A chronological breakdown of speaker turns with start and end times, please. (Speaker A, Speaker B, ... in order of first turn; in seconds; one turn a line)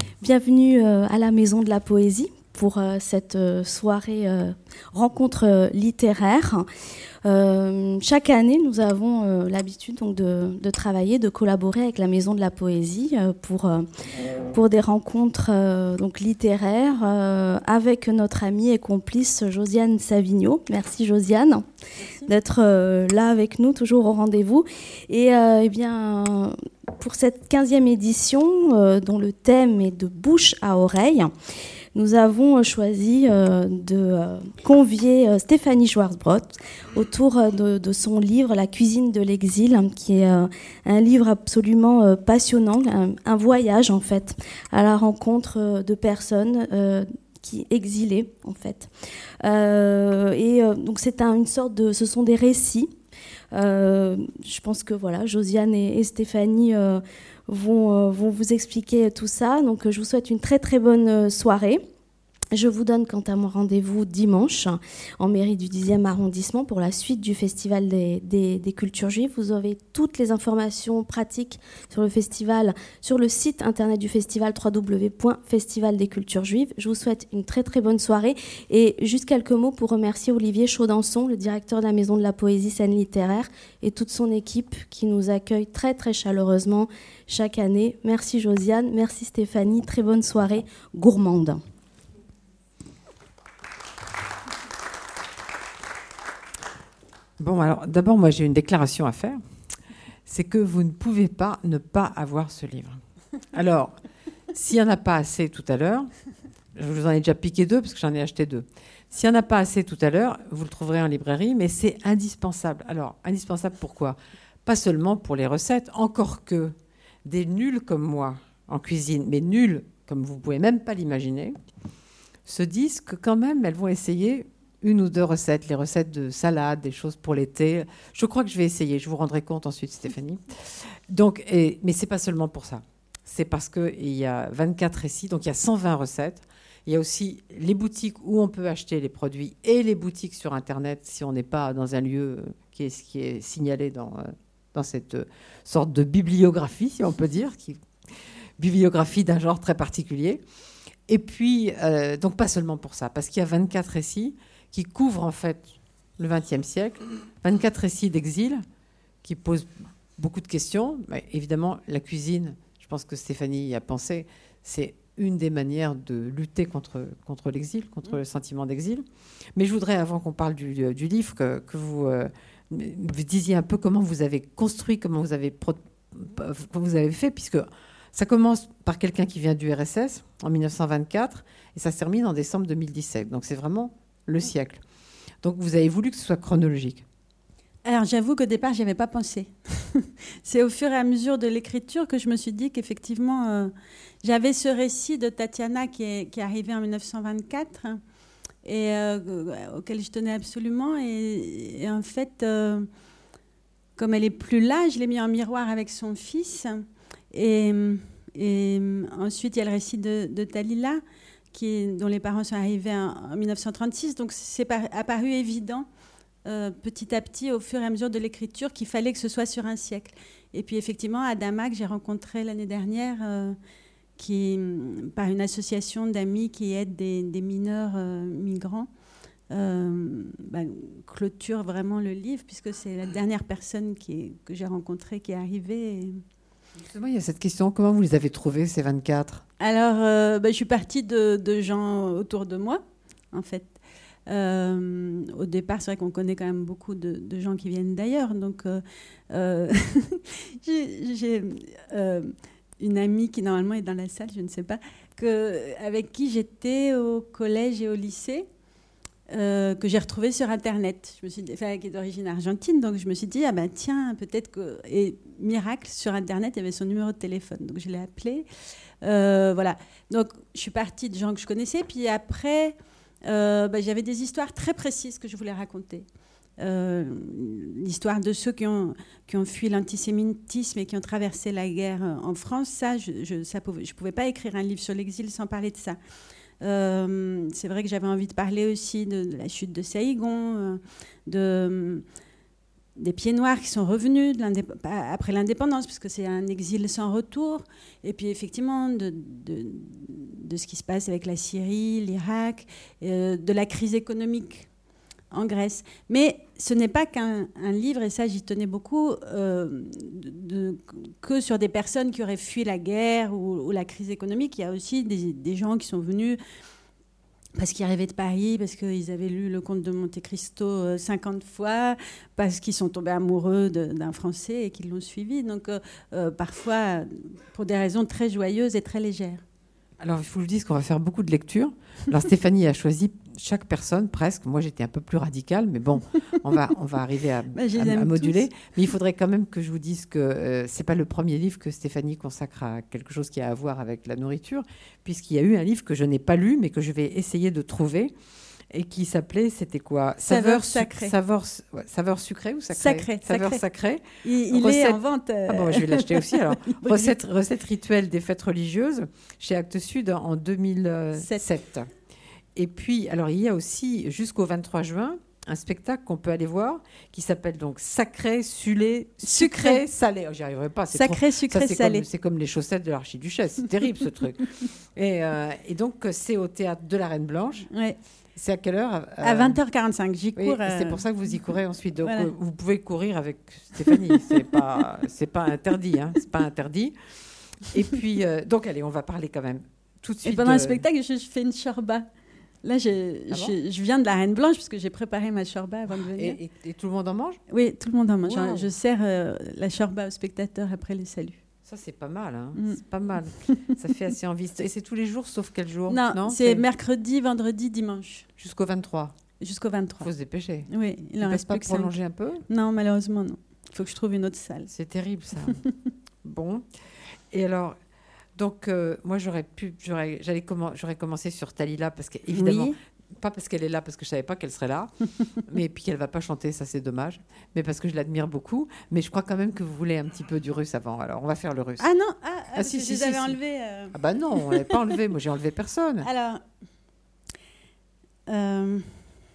Speaker A: 0.2-6.7
Speaker A: 7.2-21.7
Speaker A: 22.2-31.3
Speaker A: 31.9-52.9
Speaker A: 53.5-61.9
Speaker A: 62.5-91.6
Speaker B: 97.4-99.4
Speaker B: 100.3-103.0
Speaker B: 103.5-104.0
Speaker B: 104.5-106.1
Speaker B: 106.8-116.7
Speaker B: 117.2-121.5
Speaker B: 122.5-147.8
Speaker B: 148.6-150.4
Speaker B: 151.1-158.6
Speaker B: 159.2-184.8
Speaker B: 185.4-187.1
Speaker C: 187.8-198.0
Speaker C: 198.6-202.9
Speaker C: 204.0-211.0
Speaker C: 211.5-215.9
Speaker C: 216.4-223.6
Speaker C: 224.2-228.9
Speaker C: 229.5-236.2
Speaker B: 236.8-239.4
Speaker C: 239.6-242.8
Speaker C: 243.3-258.5
Speaker C: 259.3-268.5
Speaker C: 269.0-276.1
Speaker C: 276.6-286.0
Speaker C: 286.6-292.1
Speaker C: 293.0-304.7
Speaker C: 305.3-316.4
Speaker C: 317.6-329.4
Speaker B: 330.0-348.1
Speaker C: 337.6-338.5
Speaker B: 348.7-361.9
Speaker C: 350.3-351.1
Speaker C: 352.8-353.6
Speaker C: 354.2-357.1
Speaker C: 361.2-361.4
Speaker B: 362.6-377.7
Speaker C: 369.2-369.8
Speaker C: 370.9-372.1
Speaker C: 377.7-378.0
Speaker B: 378.4-379.6
Speaker C: 379.2-381.0
Speaker B: 380.4-390.8
Speaker C: 382.0-382.3
Speaker C: 383.9-384.6
Speaker C: 390.2-392.1
Speaker C: 392.6-396.4
Speaker B: 393.3-393.6
Speaker B: 395.9-397.4
Speaker C: 397.5-401.4
Speaker B: 398.2-398.7
Speaker B: 401.6-406.7
Speaker C: 402.6-402.8
Speaker C: 403.5-403.8
Speaker C: 405.9-408.3
Speaker B: 408.4-409.1
Speaker C: 409.4-410.1
Speaker B: 410.0-410.7
Speaker C: 410.7-412.0
Speaker B: 411.2-412.4
Speaker C: 412.5-414.7
Speaker B: 414.7-415.6
Speaker C: 415.5-415.7
Speaker B: 416.2-417.8
Speaker B: 418.4-431.9
Speaker C: 422.3-422.8
Speaker C: 431.8-434.8
Speaker B: 432.5-433.4
Speaker B: 433.9-436.1
Speaker C: 436.0-436.4
Speaker C: 438.3-439.0